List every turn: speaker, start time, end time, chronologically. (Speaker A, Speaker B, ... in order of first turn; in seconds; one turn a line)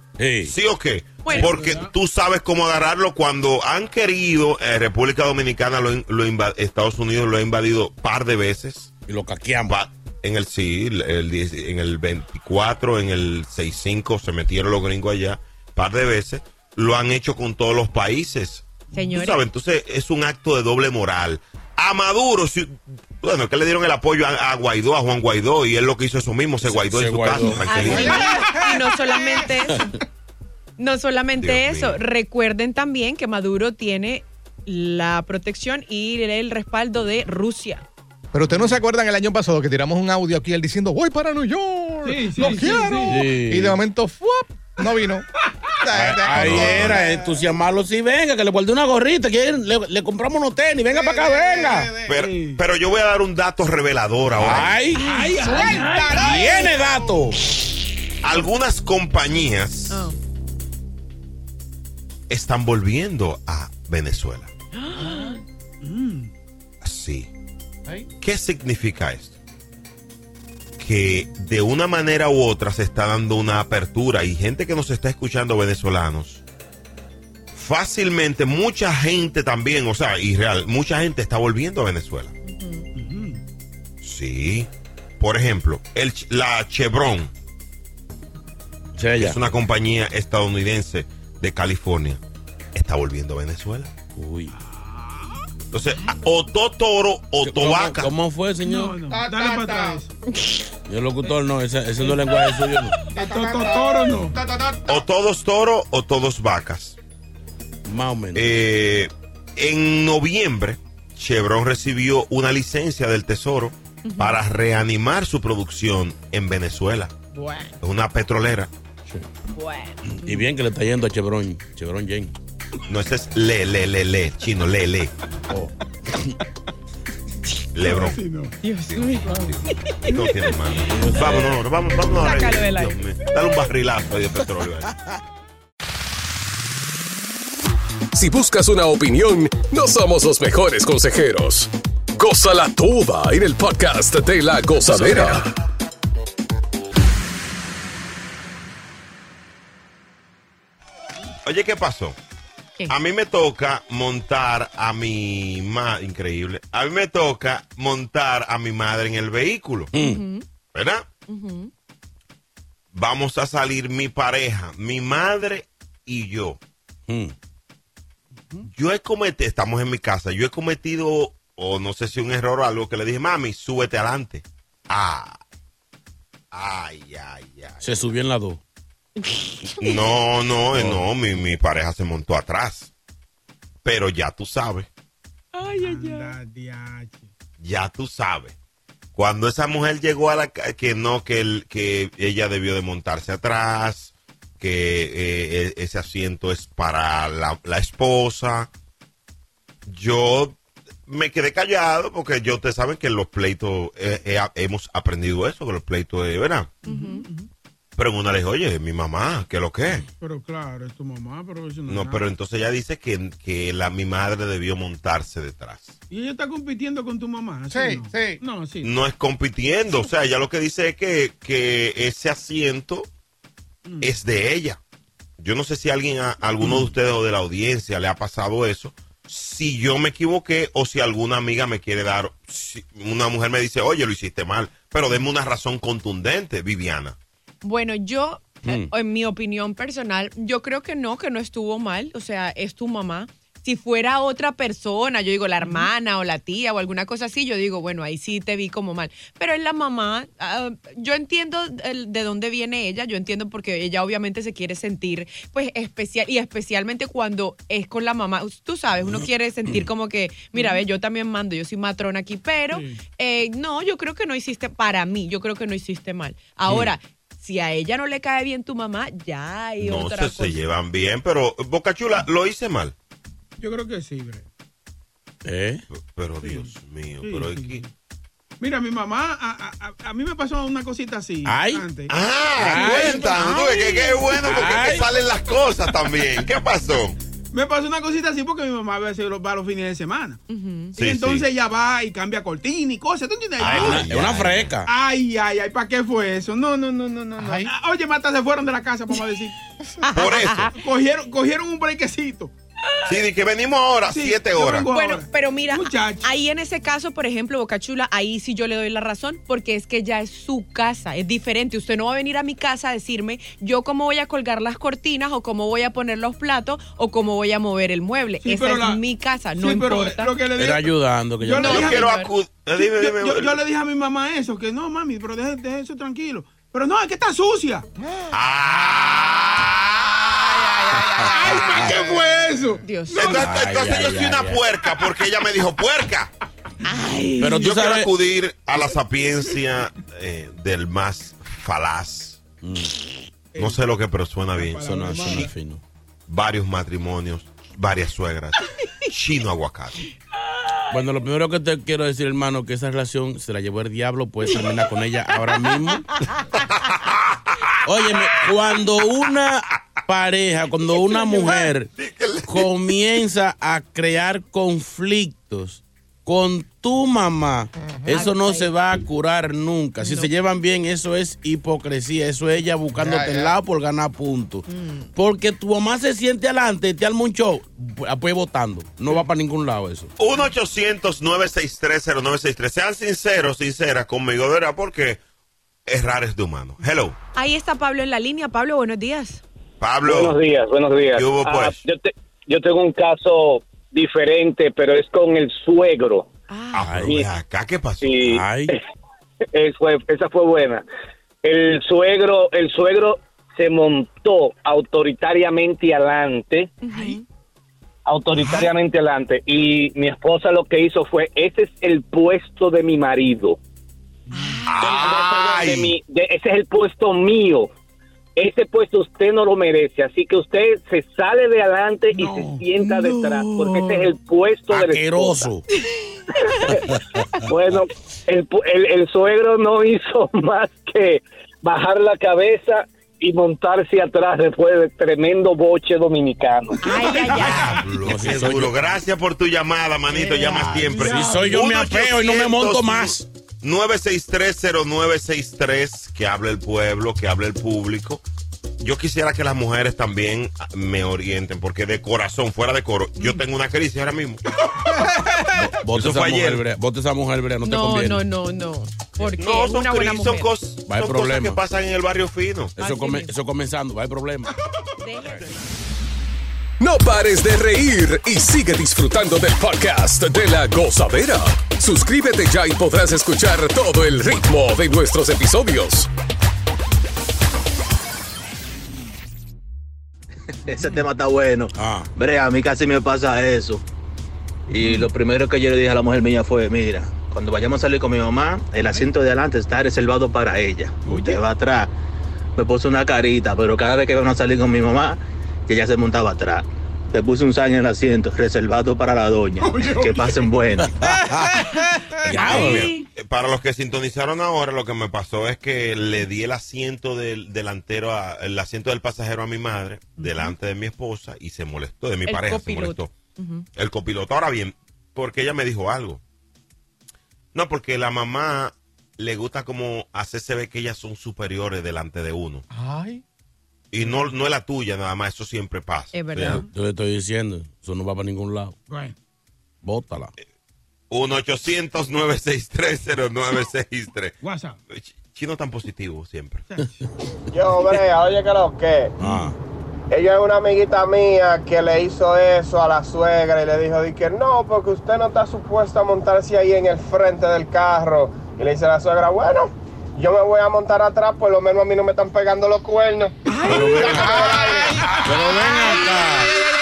Speaker A: 0.2-0.6
Speaker B: 0.5-8.9
Speaker C: 1.2-1.6
Speaker D: 1.5-1.9
Speaker A: 9.1-9.8
Speaker B: 9.7-28.3
Speaker C: 18.9-19.4
Speaker A: 26.6-28.1
Speaker C: 27.6-29.9
Speaker E: 28.2-29.5
Speaker C: 30.8-37.8
Speaker B: 31.4-32.0
Speaker E: 38.3-45.3
Speaker D: 38.5-38.8
Speaker D: 42.0-43.2
Speaker A: 43.1-43.8
Speaker E: 45.8-47.4
Speaker A: 45.9-51.9
Speaker D: 46.5-46.9
Speaker E: 50.8-52.2
Speaker B: 52.0-54.8
Speaker D: 52.2-52.6
Speaker A: 54.4-55.0
Speaker C: 55.0-55.7
Speaker D: 55.0-56.6
Speaker E: 55.4-57.2
Speaker A: 56.1-57.4
Speaker B: 58.2-60.1
Speaker C: 59.9-60.2
Speaker B: 62.3-64.5
Speaker C: 64.8-65.4
Speaker E: 65.0-65.3
Speaker D: 65.8-66.3
Speaker B: 66.8-67.3
Speaker B: 68.2-69.4
Speaker B: 70.8-76.4
Speaker B: 77.5-82.3
Speaker C: 82.5-82.9
Speaker D: 83.0-83.4
Speaker B: 84.0-84.7
Speaker B: 85.2-87.3
Speaker A: 89.0-89.4
Speaker B: 89.2-92.2
Speaker B: 92.7-93.9
Speaker A: 94.2-94.5
Speaker D: 94.6-95.4
Speaker B: 95.7-98.1
Speaker A: 97.4-98.9
Speaker D: 98.6-100.1
Speaker E: 99.0-100.0
Speaker A: 100.9-103.0
Speaker E: 103.1-105.0
Speaker D: 103.2-104.4
Speaker B: 104.9-107.0
Speaker A: 107.9-108.6
Speaker B: 108.3-117.1
Speaker C: 114.0-114.4
Speaker C: 117.3-117.8
Speaker B: 117.8-118.7
Speaker C: 119.5-120.5
Speaker A: 120.1-122.3
Speaker B: 122.9-125.1
Speaker A: 125.5-126.4
Speaker B: 127.8-128.2
Speaker D: 127.8-128.6
Speaker C: 128.6-130.8
Speaker B: 128.9-134.9
Speaker A: 130.9-131.6
Speaker C: 132.2-133.0
Speaker F: 138.2-145.4
Speaker B: 144.9-145.3
Speaker B: 151.4-152.2
Speaker B: 152.9-159.9
Speaker A: 159.9-160.2
Speaker C: 160.0-160.4
Speaker B: 160.7-161.1
Speaker C: 161.3-161.7
Speaker B: 162.9-166.6
Speaker A: 167.1-167.3
Speaker B: 168.7-175.4
Speaker B: 176.5-178.2
Speaker A: 177.8-178.6
Speaker C: 179.2-180.0
Speaker B: 179.8-182.9
Speaker A: 180.7-181.1
Speaker B: 183.8-184.9
Speaker C: 185.5-186.3
Speaker D: 185.7-187.3
Speaker B: 187.6-188.6
Speaker B: 189.2-198.7
Speaker B: 199.9-206.7
Speaker D: 206.8-207.5
Speaker C: 206.8-207.2
Speaker B: 208.0-210.0
Speaker D: 210.2-212.2
Speaker B: 211.9-216.0
Speaker D: 216.1-218.9
Speaker E: 217.7-218.4
Speaker B: 218.8-223.1
Speaker D: 223.9-224.1
Speaker B: 224.0-224.8
Speaker B: 225.4-237.2
Speaker C: 237.6-270.6
Speaker A: 238.6-238.9
Speaker D: 245.6-245.9
Speaker A: 259.0-259.9
Speaker D: 260.6-260.8
Speaker D: 262.7-263.0
Speaker A: 266.7-266.9
Speaker B: 269.8-272.9
Speaker D: 273.6-274.5
Speaker A: 275.4-275.9
Speaker B: 275.9-277.8
Speaker D: 276.4-277.9
Speaker D: 278.6-284.6
Speaker A: 281.4-281.9
Speaker B: 282.1-287.2
Speaker A: 282.6-283.2
Speaker A: 284.4-285.1
Speaker D: 287.5-290.4
Speaker C: 290.5-290.9
Speaker B: 291.0-291.5
Speaker D: 291.0-294.1
Speaker B: 293.6-294.8
Speaker A: 293.6-294.9
Speaker D: 294.9-299.6
Speaker E: 297.4-297.7
Speaker C: 300.1-300.7
Speaker B: 300.1-300.7
Speaker D: 300.8-302.5
Speaker B: 303.1-304.9
Speaker D: 304.1-306.3
Speaker C: 304.9-320.3
Speaker D: 318.4-319.0
Speaker D: 319.6-320.9
Speaker A: 320.6-321.9
Speaker D: 321.4-322.1
Speaker C: 321.6-322.3
Speaker B: 321.6-323.6
Speaker D: 322.8-327.9
Speaker B: 328.3-330.7
Speaker E: 330.5-332.4
Speaker D: 331.3-333.6
Speaker A: 331.7-332.0
Speaker C: 332.8-333.4
Speaker B: 333.1-336.3
Speaker A: 333.3-334.6
Speaker C: 336.9-337.3
Speaker D: 337.0-337.3
Speaker A: 337.4-338.1
Speaker B: 337.5-342.4
Speaker A: 342.6-342.9
Speaker D: 343.5-343.8
Speaker B: 343.6-345.4
Speaker D: 344.6-345.5
Speaker A: 344.8-345.8
Speaker B: 346.3-350.0
Speaker A: 350.9-356.1
Speaker B: 356.6-357.4
Speaker A: 357.9-361.9
Speaker B: 361.1-362.7
Speaker A: 362.5-380.1
Speaker E: 367.8-368.3
Speaker C: 368.1-368.7
Speaker E: 372.9-373.6
Speaker C: 374.7-375.1
Speaker B: 380.2-385.2
Speaker B: 385.9-387.2
Speaker C: 387.4-389.4
Speaker B: 389.8-390.4
Speaker G: 390.1-396.3
Speaker B: 391.1-391.8
Speaker C: 396.5-397.0
Speaker B: 396.7-398.2
Speaker A: 396.8-397.2
Speaker G: 398.0-398.8
Speaker A: 398.2-398.7
Speaker G: 399.5-400.9
Speaker G: 401.4-407.1
Speaker C: 406.8-407.2
Speaker G: 408.1-413.6
Speaker B: 408.4-408.7
Speaker D: 414.3-414.6
Speaker C: 414.3-415.0
Speaker B: 414.7-416.0
Speaker G: 414.8-417.7
Speaker G: 418.4-425.5
Speaker D: 422.1-424.1
Speaker A: 424.7-425.6
Speaker G: 427.5-437.0
Speaker C: 436.8-437.9
Speaker B: 437.2-448.2
Speaker D: 437.4-437.8
Speaker A: 438.0-438.8
Speaker D: 440.1-441.5
Speaker A: 440.7-443.2
Speaker B: 448.8-454.4
Speaker A: 455.5-458.2
Speaker B: 455.9-456.6
Speaker C: 457.6-460.6
Speaker B: 459.2-462.8
Speaker A: 460.9-461.6
Speaker A: 462.8-464.5
Speaker C: 462.8-463.3
Speaker C: 465.0-465.6
Speaker B: 465.3-465.5
Speaker F: 466.8-476.1
Speaker H: 480.7-483.8
Speaker A: 481.8-482.1
Speaker H: 484.7-491.9
Speaker D: 488.8-489.1
Speaker D: 491.0-491.4
Speaker H: 492.6-500.9
Speaker D: 499.6-500.5
Speaker A: 500.9-501.4
Speaker D: 501.0-501.6
Speaker A: 502.2-502.9
Speaker B: 502.4-513.1
Speaker C: 502.6-502.9
Speaker C: 510.2-510.5
Speaker C: 512.3-513.7
Speaker B: 513.8-516.2
Speaker B: 517.5-522.6
Speaker E: 522.7-523.2
Speaker B: 523.9-526.7
Speaker D: 524.0-524.3
Speaker C: 526.1-526.7
Speaker A: 526.5-528.8
Speaker D: 528.9-529.1
Speaker A: 529.8-530.3
Speaker B: 531.1-534.4
Speaker D: 534.4-534.8
Speaker B: 534.9-536.6
Speaker D: 536.7-537.1
Speaker I: 537.5-539.1
Speaker A: 539.2-539.6
Speaker I: 540.1-555.0
Speaker D: 553.5-555.1
Speaker A: 553.6-554.6
Speaker E: 554.0-555.1
Speaker A: 555.2-556.5